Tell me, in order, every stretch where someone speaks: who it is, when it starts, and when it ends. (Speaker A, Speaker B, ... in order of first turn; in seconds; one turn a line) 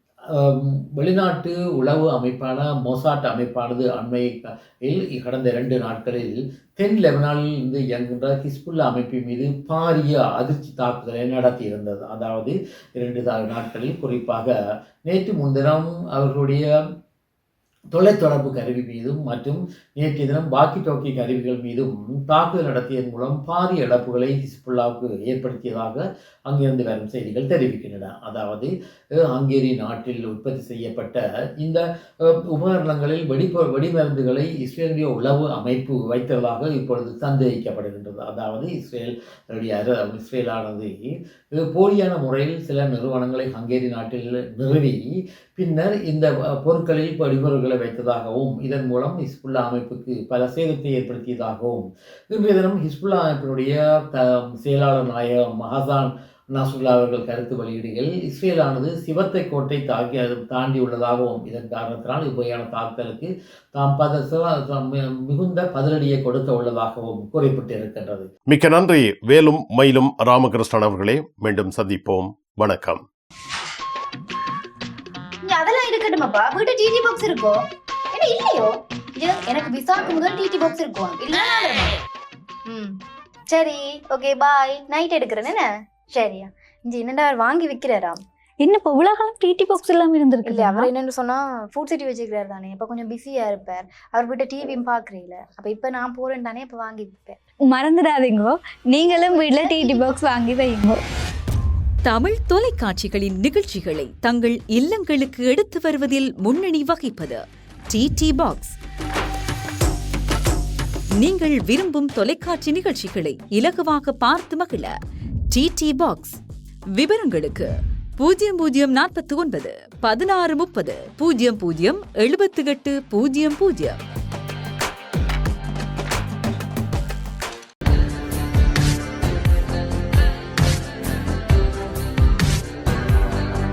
Speaker A: 0.3-14.5
Speaker A: 15.1-16.6
Speaker A: 17.9-28.7
Speaker A: 29.3-40.9
Speaker A: 41.5-45.0
Speaker A: 45.5-68.3
Speaker B: 68.5-73.0
Speaker C: 75.4-82.0
Speaker C: 82.7-82.9
Speaker C: 83.5-88.2
Speaker D: 88.6-90.9
Speaker C: 90.5-97.4
Speaker D: 97.7-101.0
Speaker C: 99.0-100.1
Speaker E: 102.0-108.8
Speaker E: 111.2-114.9
Speaker E: 115.5-116.4
Speaker E: 116.9-124.0